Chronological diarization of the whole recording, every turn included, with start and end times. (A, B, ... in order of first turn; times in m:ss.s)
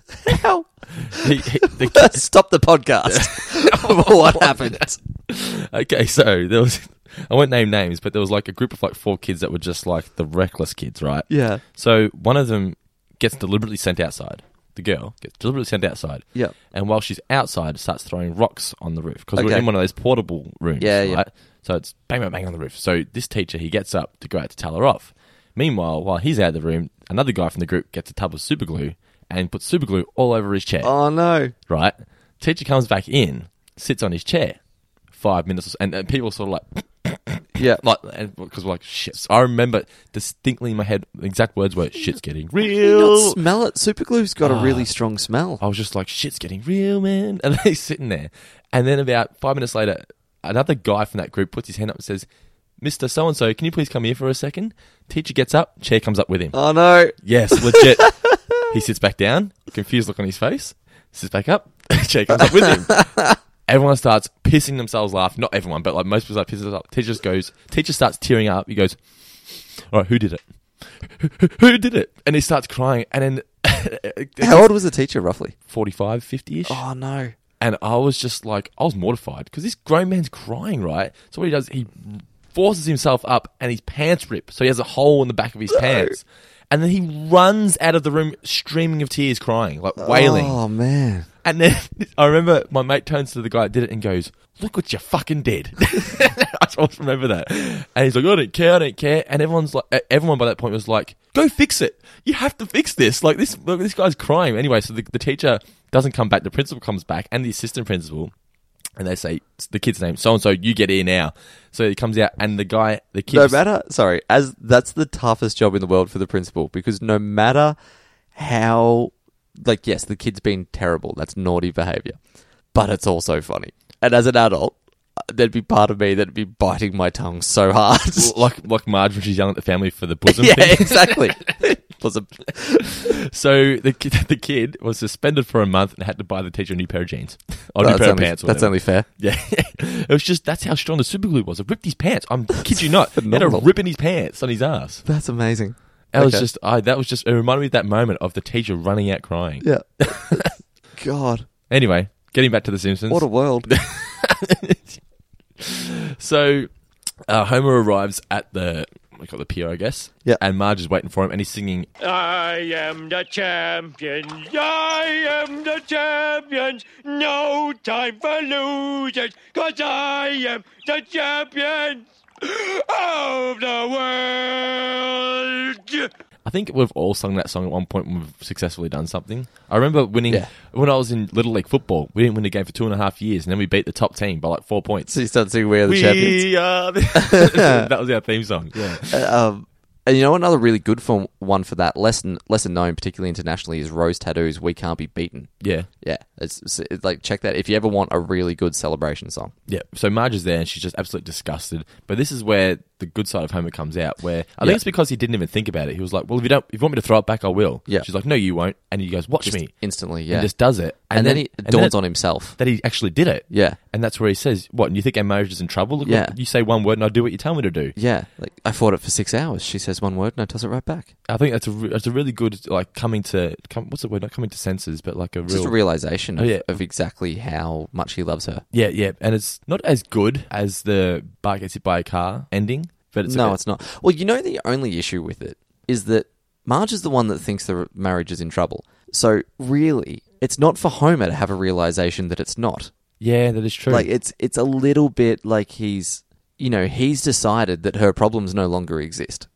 0:00.2-0:05.0 A
0:01.0-0:02.3 B
0:03.1-0:30.9 B
0:11.3-0:11.6 A
0:19.4-0:19.7 A
0:20.8-0:21.2 A
0:30.8-0:31.5 A
0:31.6-0:34.6 B
0:35.1-0:43.4 B
0:37.6-0:37.8 A
0:42.6-0:45.6 A
0:44.4-0:44.9 B
0:45.6-0:52.3 B
0:52.8-0:56.6 B
0:56.5-0:58.4 A
0:57.1-1:14.7 B
1:14.4-1:15.6 A
1:15.7-1:16.8 B
1:16.7-1:17.4 A
1:17.6-1:30.6 B
1:25.7-1:26.2 A
1:30.0-1:31.3 A
1:31.4-1:48.3 B
1:49.0-1:53.6 B
1:53.3-1:57.8 A
1:58.4-2:02.2 A
2:02.7-2:08.4 A
2:08.2-2:11.8 B
2:10.3-2:12.9 A
2:12.8-2:25.0 B
2:17.8-2:19.1 A
2:22.7-2:23.7 A
2:25.1-2:26.5 A
2:26.1-2:30.5 B
2:29.6-2:31.5 A
2:31.7-2:35.0 B
2:33.1-2:33.7 A
2:35.6-2:36.7 B
2:37.3-2:41.9 B
2:42.0-2:56.1 C
2:56.5-3:05.1 B
3:05.1-3:06.5 A
3:05.8-3:09.3 B
3:07.2-3:07.8 A
3:09.0-3:19.6 A
3:15.6-3:15.9 B
3:19.7-3:38.0 B
3:29.4-3:32.6 A
3:33.5-3:33.8 A
3:36.0-3:36.3 A
3:38.0-3:41.1 A
3:41.3-3:45.8 B
3:45.5-3:48.6 A
3:46.3-3:46.7 B
3:48.7-3:53.6 B
3:53.3-4:02.9 A
4:03.2-4:04.1 B
4:03.9-4:09.5 A